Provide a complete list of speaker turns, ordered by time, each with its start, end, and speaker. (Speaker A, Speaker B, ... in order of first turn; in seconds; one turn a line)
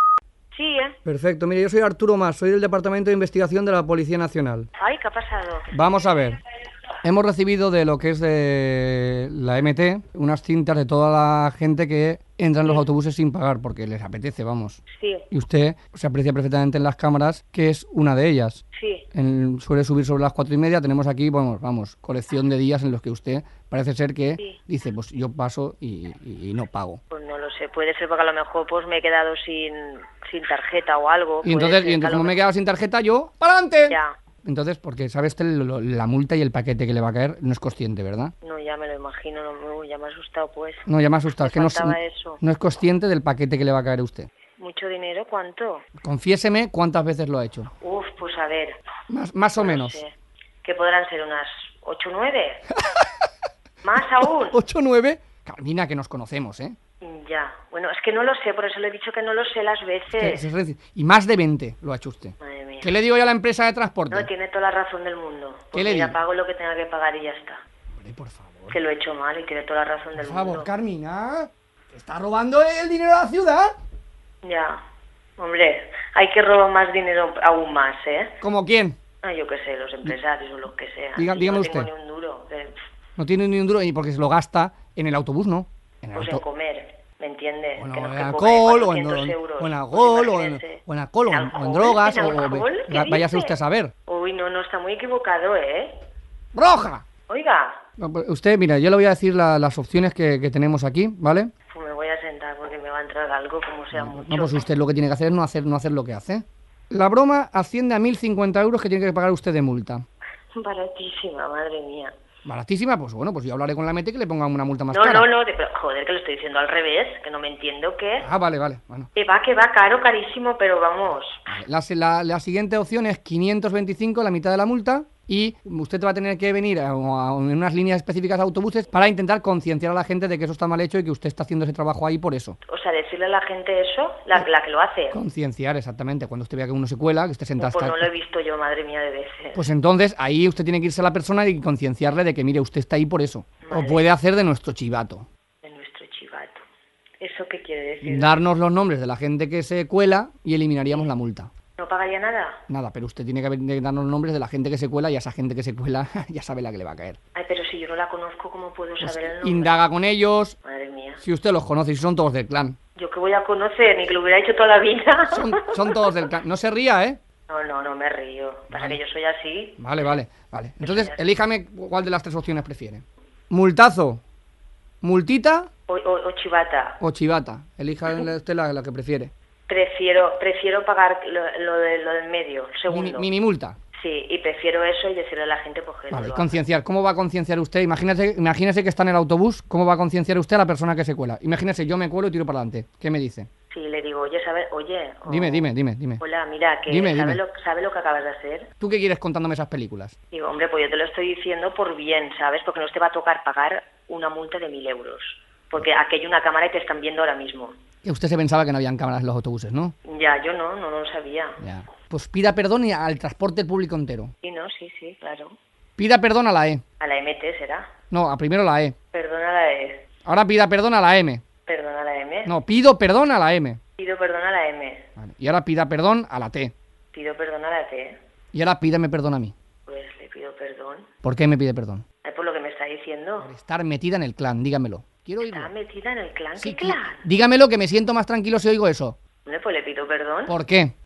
Speaker A: 0.5-1.0
Speaker B: 1.0-4.7
Speaker A: 4.8-5.7
Speaker B: 5.7-6.4
Speaker B: 7.0-27.0
Speaker A: 14.9-15.2
Speaker A: 18.7-19.1
Speaker A: 27.1-32.5
Speaker B: 31.4-38.3
Speaker A: 38.4-42.4
Speaker B: 40.9-44.3
Speaker A: 44.6-45.8
Speaker B: 46.0-47.7
Speaker A: 47.8-48.8
Speaker B: 49.1-50.0
Speaker A: 49.6-52.6
Speaker A: 53.8-54.6
Speaker B: 54.5-56.7
Speaker A: 57.0-60.4
Speaker B: 60.1-64.3
Speaker A: 62.4-62.9
Speaker A: 64.1-67.6
Speaker B: 65.7-66.2
Speaker B: 68.0-68.8
Speaker A: 68.7-70.7
Speaker B: 70.2-73.7
Speaker A: 74.4-74.8
Speaker A: 75.4-78.4
Speaker B: 78.4-79.0
Speaker A: 79.2-82.8
Speaker B: 81.2-81.9
Speaker B: 83.2-86.4
Speaker A: 86.2-93.5
Speaker B: 87.8-93.9
Speaker A: 94.0-96.0
Speaker B: 96.5-97.0
Speaker A: 97.3-97.8
Speaker B: 98.0-101.5
Speaker A: 101.7-104.6
Speaker B: 103.9-110.0
Speaker A: 110.5-112.1
Speaker B: 112.5-115.3
Speaker A: 114.9-118.3
Speaker B: 118.2-119.1
Speaker A: 119.1-121.4
Speaker B: 121.5-132.6
Speaker A: 132.7-135.2
Speaker B: 135.1-138.1
Speaker A: 137.6-139.6
Speaker B: 139.5-145.2
Speaker A: 143.6-144.0
Speaker A: 145.6-146.6
Speaker A: 147.2-148.3
Speaker B: 148.0-151.5
Speaker A: 151.8-152.6
Speaker B: 152.7-157.2
Speaker A: 157.3-159.8
Speaker B: 159.0-160.6
Speaker A: 160.6-161.2
Speaker B: 161.2-162.8
Speaker A: 162.9-166.1
Speaker B: 165.3-167.2
Speaker A: 167.5-169.8
Speaker B: 168.7-169.0
Speaker B: 169.8-174.2
Speaker A: 170.8-171.2
Speaker B: 175.0-175.7
Speaker A: 175.9-177.0
Speaker B: 177.0-179.3
Speaker A: 179.7-183.3
Speaker B: 182.9-183.8
Speaker A: 183.9-186.6
Speaker B: 186.1-193.5
Speaker A: 193.7-195.7
Speaker B: 195.3-196.2
Speaker A: 196.2-198.7
Speaker B: 196.9-197.4
Speaker B: 198.8-200.1
Speaker A: 200.3-207.7
Speaker B: 208.0-209.9
Speaker A: 210.0-211.6
Speaker B: 211.6-214.3
Speaker A: 214.4-215.5
Speaker B: 216.0-216.8
Speaker A: 217.0-217.9
Speaker B: 218.1-218.9
Speaker A: 219.1-220.1
Speaker B: 220.2-221.4
Speaker A: 221.7-222.5
Speaker B: 222.4-223.8
Speaker A: 224.0-225.1
Speaker B: 225.2-226.7
Speaker A: 227.1-228.2
Speaker B: 228.5-229.5
Speaker A: 229.9-231.1
Speaker B: 231.2-232.0
Speaker A: 232.2-233.5
Speaker B: 233.4-235.7
Speaker A: 235.4-237.2
Speaker B: 236.6-239.2
Speaker A: 239.4-240.5
Speaker B: 240.5-240.9